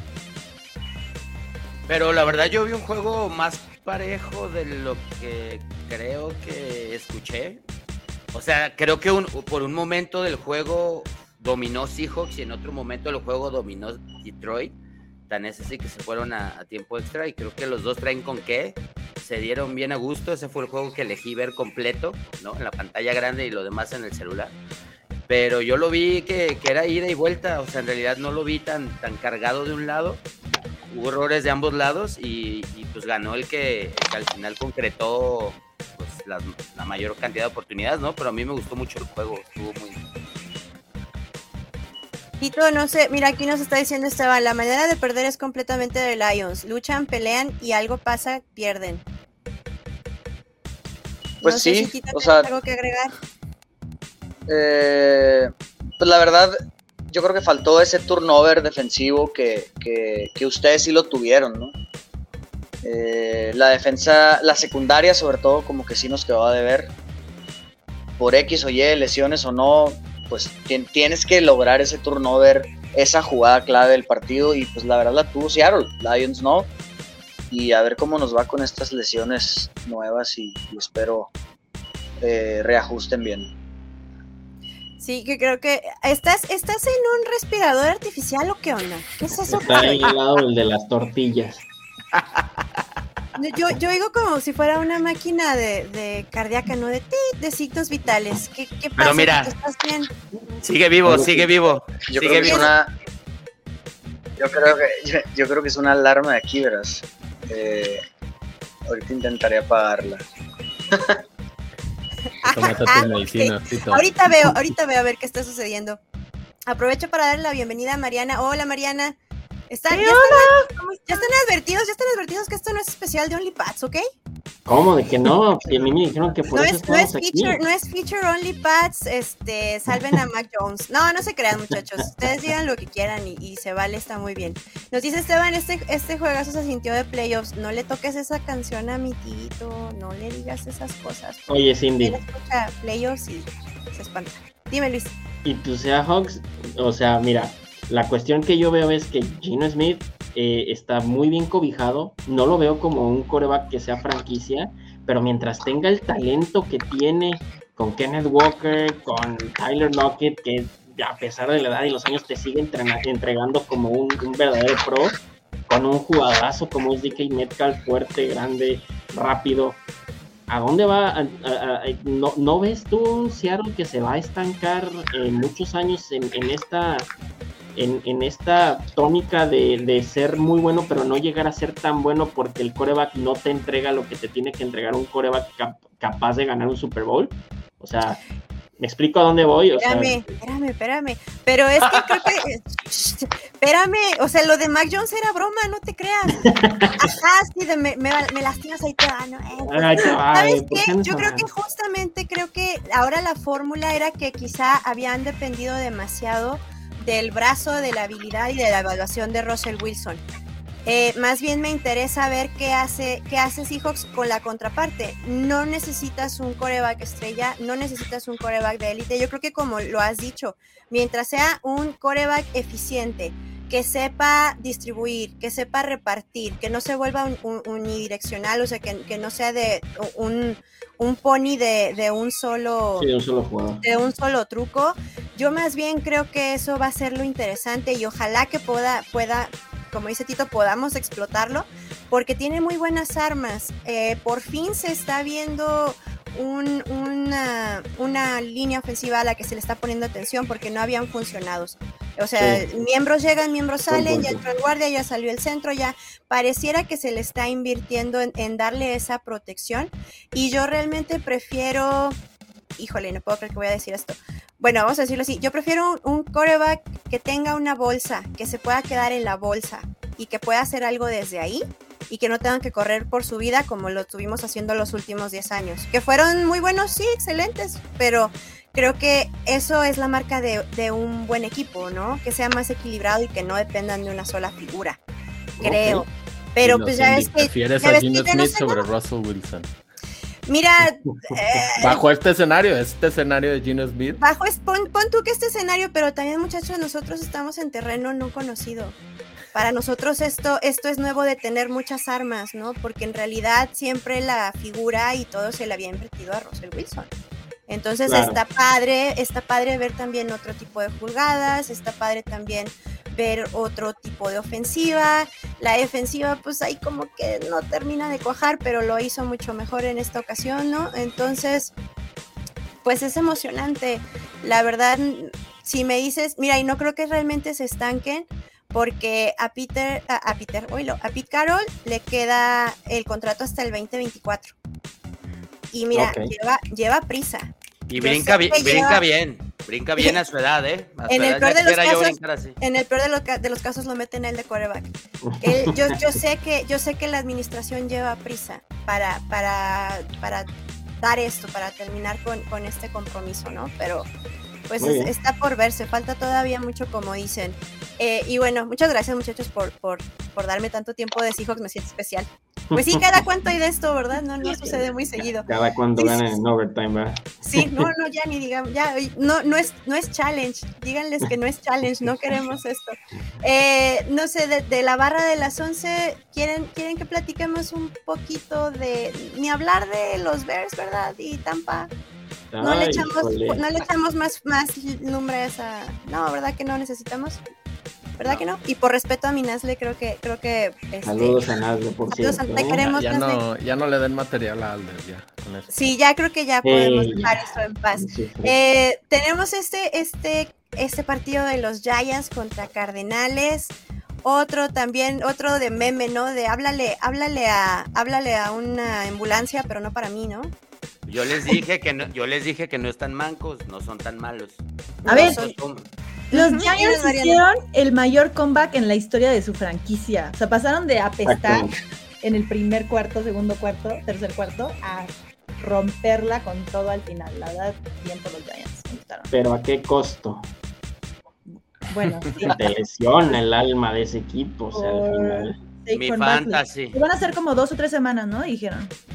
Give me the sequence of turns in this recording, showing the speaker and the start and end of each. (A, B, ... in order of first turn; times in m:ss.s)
0:01.9-0:07.6 A
0:08.3-0:14.8 A
0:15.3-0:24.6 A
0:25.3-0:30.2 A
0:30.9-0:40.0 A
0:42.4-0:49.0 B
0:51.4-0:52.5 C
0:51.4-0:53.1 B
0:54.5-0:56.6 C
0:57.1-1:01.7 C
1:02.8-1:06.9 C
1:08.2-1:16.7 C
1:17.5-1:21.3 C
1:22.2-1:23.5 C
1:25.0-1:30.1 B
1:29.6-1:31.6 D
1:32.1-1:32.8 A
1:33.4-1:40.1 B
1:39.0-1:39.5 A
1:40.6-1:42.7 A
1:41.0-1:41.4 D
1:42.1-1:42.9 C
1:42.4-1:42.7 B
1:44.4-1:48.0 C
1:48.9-1:50.2 C
1:52.4-1:56.0 B
1:52.4-1:54.1 E
1:56.7-1:59.2 B
1:59.7-2:04.0 B
1:59.9-2:01.3 F
2:04.6-2:07.6 D
2:06.5-2:21.5 B
2:21.5-2:22.2 D
2:22.0-2:25.1 B
2:25.4-2:45.2 D
2:45.7-2:49.8 D
2:50.5-2:57.1 D
2:57.7-3:08.2 D
3:08.8-3:10.2 D
3:09.8-3:30.2 B
3:16.4-3:17.0 D
3:19.6-3:21.5 D
3:30.8-3:53.1 B
3:53.0-3:53.8 D
3:53.8-4:22.2 B
4:12.4-4:12.6 D
4:13.9-4:14.4 D
4:22.8-4:45.0 B
4:45.6-4:46.0 D
4:45.6-4:48.9 B
4:46.6-4:49.7 E
4:50.5-4:52.0 B
4:51.8-4:54.2 E
4:54.2-4:59.0 B
4:59.5-5:07.1 B
5:07.7-5:21.7 B
5:08.0-5:08.4 D
5:22.8-5:34.5 B
5:35.7-5:39.0 B
5:35.9-5:36.3 D
5:37.9-5:42.6 A
5:41.1-5:54.1 B
5:45.2-5:46.0 D
5:54.7-6:06.2 B
5:54.8-5:55.1 D
6:02.7-6:03.2 D
6:04.5-6:07.9 D
6:07.4-6:21.9 B
6:22.5-6:23.6 D
6:22.6-6:27.4 B
6:28.2-6:31.5 B
6:28.2-6:28.5 A
6:31.0-6:32.8 D
6:32.1-6:33.4 B
6:32.8-6:35.7 E
6:35.7-6:50.5 B
6:36.6-6:38.5 D
6:51.1-6:55.9 A
6:55.0-6:55.5 B
6:55.0-6:55.4 F
6:56.3-6:57.4 B
6:56.3-7:09.3 F
7:01.2-7:01.7 D
7:09.3-7:10.5 D
7:11.5-7:12.7 F
7:12.4-7:15.6 D
7:14.7-7:18.9 F
7:15.9-7:17.0 A